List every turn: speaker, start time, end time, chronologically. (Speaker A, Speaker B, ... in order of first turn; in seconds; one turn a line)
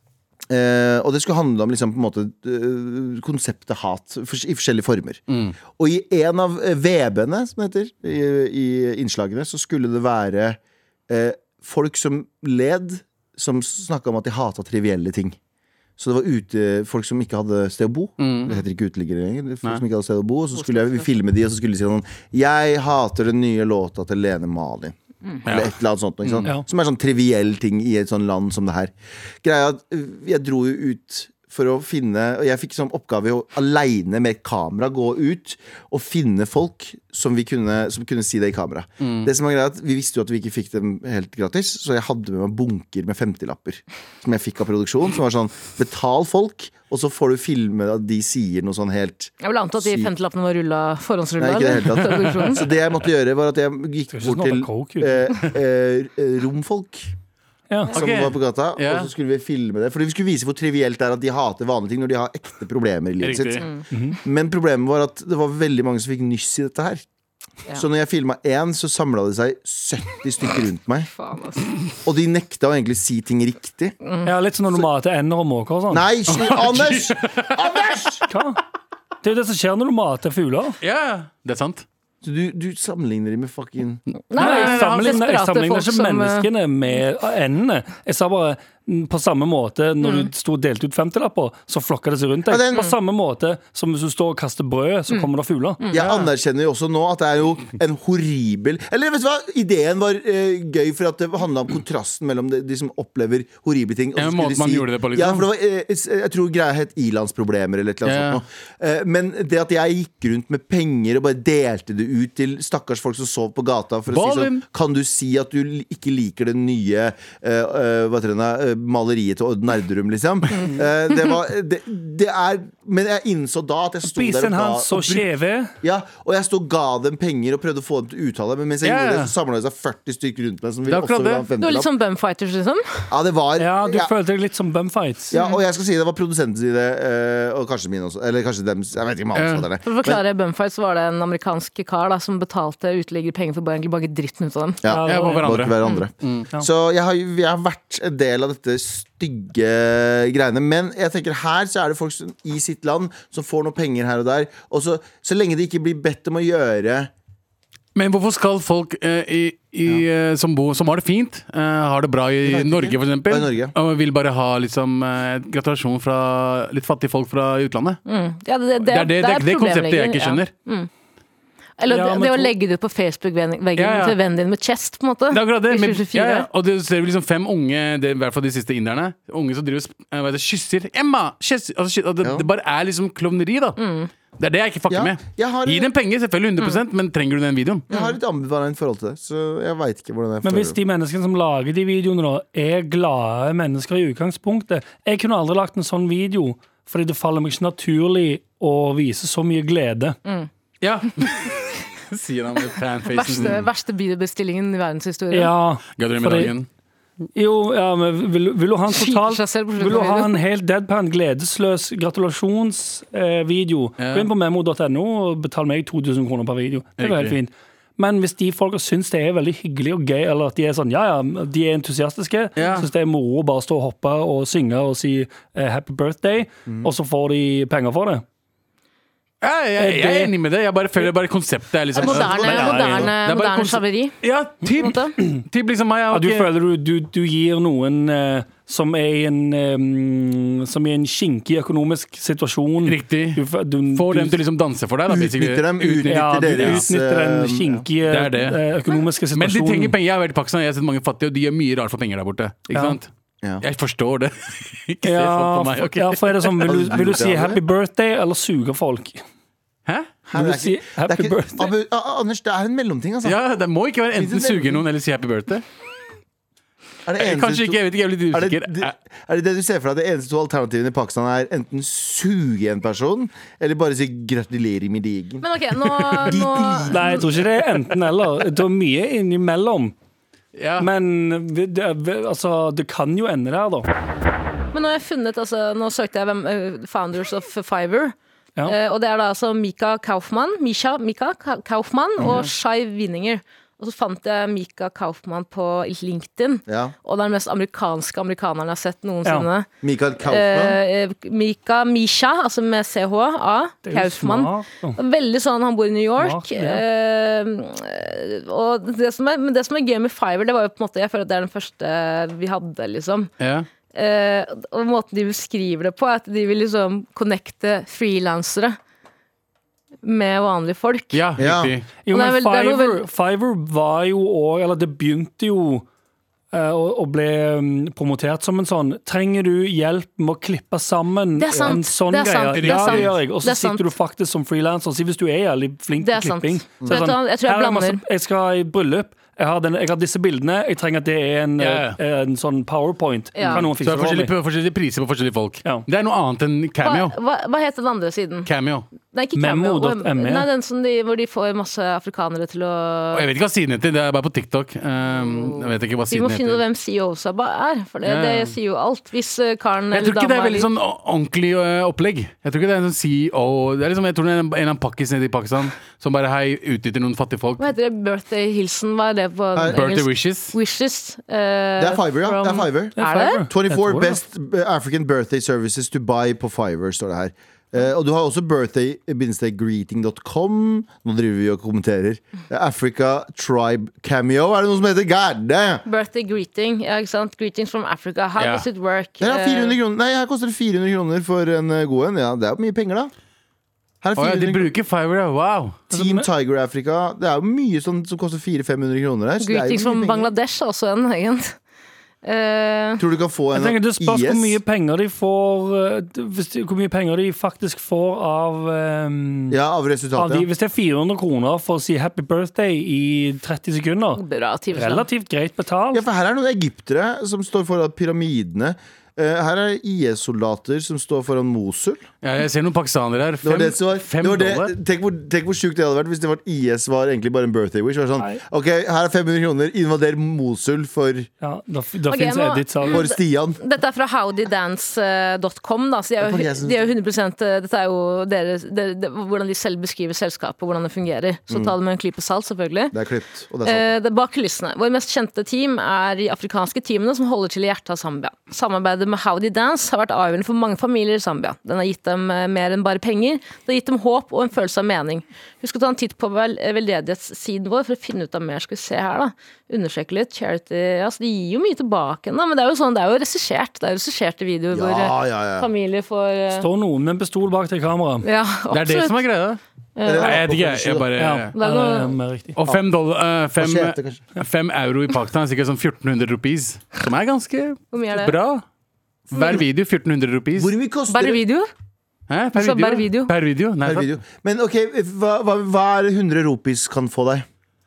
Speaker A: 0.5-15.4
Speaker B: 5.3-5.5
Speaker A: 16.0-50.1
Speaker B: 18.2-18.5
Speaker C: 20.5-21.1
Speaker B: 25.4-26.5
Speaker B: 39.0-39.3
Speaker C: 49.4-52.7
Speaker A: 51.4-57.1
Speaker D: 54.1-55.2
Speaker A: 57.9-63.7
Speaker B: 57.9-59.1
Speaker B: 63.2-63.6
Speaker D: 63.9-64.2
Speaker A: 64.2-67.0
Speaker A: 67.7-71.1
Speaker C: 71.2-71.7
Speaker A: 72.0-73.9
Speaker C: 74.0-74.3
Speaker D: 74.2-76.0
Speaker A: 75.9-78.2
Speaker B: 76.3-77.6
Speaker D: 78.3-78.6
Speaker D: 79.2-80.8
Speaker B: 80.8-81.8
Speaker A: 82.2-84.0
Speaker C: 84.3-86.5
Speaker B: 84.3-85.2
Speaker D: 84.4-95.8
Speaker C: 90.0-90.3
Speaker A: 92.5-92.9
Speaker C: 95.8-96.0
Speaker A: 95.9-125.3
Speaker B: 104.2-105.5
Speaker B: 108.0-108.4
Speaker B: 114.1-114.6
Speaker D: 124.0-125.7
Speaker A: 125.8-131.9
Speaker B: 128.8-129.3
Speaker B: 130.9-131.4
Speaker C: 131.6-133.1
Speaker A: 133.1-134.1
Speaker D: 133.6-135.3
Speaker A: 135.3-140.2
Speaker C: 135.3-135.6
Speaker B: 139.3-139.7
Speaker C: 139.8-144.8
Speaker A: 144.8-157.1
Speaker D: 144.9-145.6
Speaker B: 145.1-146.5
Speaker B: 157.9-168.0
Speaker A: 162.4-163.7
Speaker C: 168.1-170.9
Speaker B: 168.8-170.5
Speaker C: 171.8-176.5
Speaker D: 171.9-172.5
Speaker B: 173.8-174.2
Speaker B: 175.3-183.8
Speaker A: 182.2-182.5
Speaker C: 183.8-184.1
Speaker B: 184.4-187.9
Speaker A: 184.9-185.9
Speaker A: 187.9-190.8
Speaker C: 187.9-188.2
Speaker D: 190.4-200.2
Speaker B: 200.8-203.7
Speaker C: 203.1-205.5
Speaker D: 205.3-206.5
Speaker B: 206.0-206.7
Speaker D: 207.3-228.2
Speaker C: 208.9-210.4
Speaker B: 214.0-214.3
Speaker B: 217.0-217.3
Speaker B: 222.6-222.9
Speaker A: 226.7-226.9
Speaker B: 229.4-236.5
Speaker D: 229.8-230.3
Speaker A: 231.9-233.1
Speaker C: 232.0-234.2
Speaker D: 232.5-233.1
Speaker C: 234.8-235.1
Speaker D: 236.1-244.4
Speaker B: 242.8-243.4
Speaker B: 243.9-246.8
Speaker A: 245.1-247.8
Speaker D: 246.1-249.9
Speaker B: 248.1-248.6
Speaker B: 249.3-253.1
Speaker D: 252.7-253.0
Speaker B: 253.6-256.8
Speaker D: 255.0-259.2
Speaker A: 256.6-257.6
Speaker A: 260.3-263.4
Speaker D: 260.3-261.7
Speaker B: 263.2-265.6
Speaker A: 264.1-264.8
Speaker A: 267.1-275.5
Speaker B: 267.2-268.9
Speaker C: 275.4-277.2
Speaker B: 276.0-276.3
Speaker A: 276.1-277.3
Speaker D: 276.9-279.9
Speaker B: 280.5-280.9
Speaker D: 280.8-283.9
Speaker C: 284.7-288.1
Speaker C: 288.6-299.7
Speaker A: 292.2-292.4
Speaker A: 296.7-296.9
Speaker A: 299.8-300.8
Speaker C: 300.2-313.3
Speaker D: 303.8-305.0
Speaker D: 306.2-306.8
Speaker B: 313.4-313.7
Speaker C: 313.9-318.8
Speaker C: 320.0-321.2
Speaker B: 321.1-321.9
Speaker A: 321.4-321.7
Speaker D: 322.0-325.9
Speaker C: 322.1-323.0
Speaker D: 326.5-344.3
Speaker C: 331.4-333.9
Speaker B: 332.5-333.1
Speaker C: 336.0-338.0
Speaker B: 341.6-342.0
Speaker C: 343.3-343.6
Speaker B: 343.4-347.1
Speaker C: 346.8-348.5
Speaker B: 348.4-348.9
Speaker C: 349.1-353.2
Speaker D: 349.4-350.5
Speaker B: 353.1-356.6
Speaker C: 355.0-360.7
Speaker B: 358.0-358.6
Speaker B: 359.9-367.7
Speaker C: 367.6-373.4
Speaker A: 369.5-369.8
Speaker B: 369.7-370.5
Speaker A: 371.8-385.8
Speaker D: 373.0-374.2
Speaker C: 385.9-389.8
Speaker B: 388.4-388.6
Speaker A: 389.2-393.1
Speaker A: 394.0-394.7
Speaker B: 394.2-395.8
Speaker D: 395.9-396.3
Speaker A: 395.9-400.3
Speaker C: 399.4-401.6
Speaker C: 402.2-403.0
Speaker A: 403.0-404.6
Speaker D: 403.5-409.6
Speaker A: 409.5-410.5
Speaker D: 410.1-414.2
Speaker C: 414.1-415.1
Speaker D: 414.7-416.0
Speaker A: 415.9-422.0
Speaker B: 422.2-424.7
Speaker A: 423.4-431.3
Speaker D: 431.4-433.0
Speaker C: 432.1-442.9
Speaker A: 432.9-433.6
Speaker A: 436.2-436.9
Speaker A: 442.9-443.9
Speaker C: 443.6-466.7
Speaker A: 464.7-465.7
Speaker D: 466.5-468.2
Speaker C: 468.2-469.2
Speaker B: 468.7-469.6
Speaker C: 470.0-470.4
Speaker A: 470.0-471.1
Speaker B: 470.2-471.5
Speaker D: 471.2-472.6
Speaker C: 471.6-472.1
Speaker B: 472.6-478.6
Speaker A: 473.6-474.2
Speaker C: 477.9-478.3
Speaker B: 479.3-480.7
Speaker C: 479.3-479.6
Speaker A: 480.5-481.4
Speaker C: 481.1-481.7
Speaker B: 482.3-484.1
Speaker C: 482.5-483.3
Speaker A: 483.8-487.4